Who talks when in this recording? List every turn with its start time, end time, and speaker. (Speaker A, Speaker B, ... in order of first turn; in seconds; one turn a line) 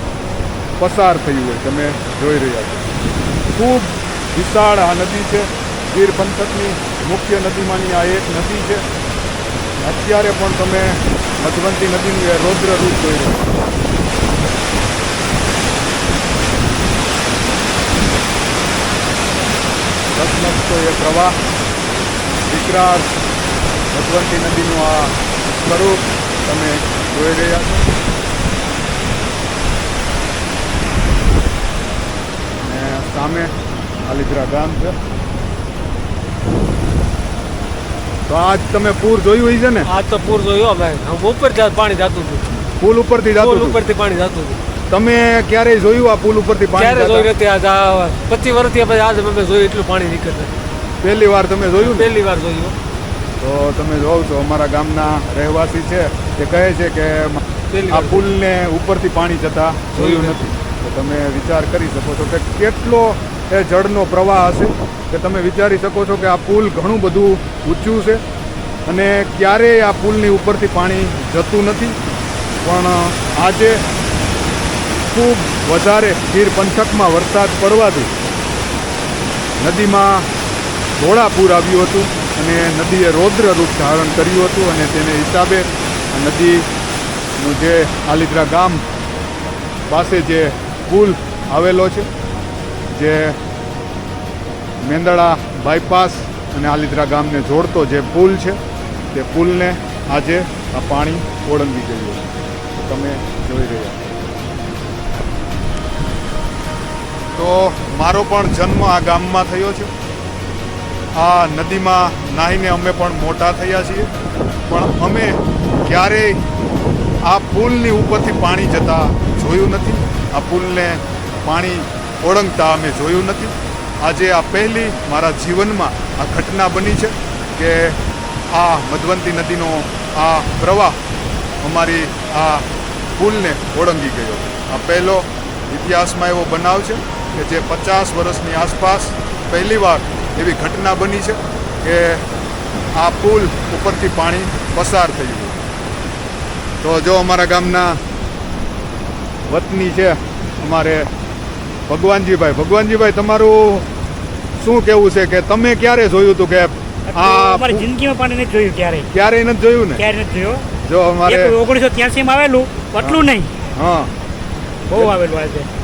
Speaker A: 0.8-3.0
Speaker A: 3.5-8.9
Speaker A: 9.8-13.6
Speaker A: 20.1-21.4
Speaker A: 22.5-23.1
Speaker A: 23.9-27.9
Speaker A: 32.6-33.5
Speaker A: 34.1-35.0
Speaker A: 38.3-39.9
Speaker B: 39.9-42.5
Speaker A: 42.8-43.8
Speaker B: 43.4-44.6
Speaker A: 44.9-47.3
Speaker B: 46.8-50.5
Speaker A: 51.0-52.1
Speaker B: 51.8-52.8
Speaker A: 53.4-68.2
Speaker B: 57.7-58.3
Speaker B: 59.9-60.4
Speaker A: 68.9-72.0
Speaker A: 72.6-73.8
Speaker A: 75.1-78.1
Speaker A: 79.6-80.3
Speaker A: 81.0-86.7
Speaker A: 87.4-88.8
Speaker A: 89.9-92.1
Speaker A: 92.9-93.4
Speaker A: 94.8-98.6
Speaker A: 99.1-104.0
Speaker A: 107.3-109.9
Speaker A: 111.1-114.1
Speaker A: 114.7-116.4
Speaker A: 117.2-131.0
Speaker A: 131.6-142.3
Speaker A: 143.0-145.6
Speaker A: 146.8-148.0
Speaker A: 149.5-151.1
Speaker A: 151.9-153.9
Speaker A: 154.6-157.9
Speaker C: 157.1-159.1
Speaker A: 159.1-160.0
Speaker C: 160.0-160.7
Speaker A: 160.8-161.6
Speaker C: 161.3-163.5
Speaker A: 163.0-164.1
Speaker C: 164.9-165.7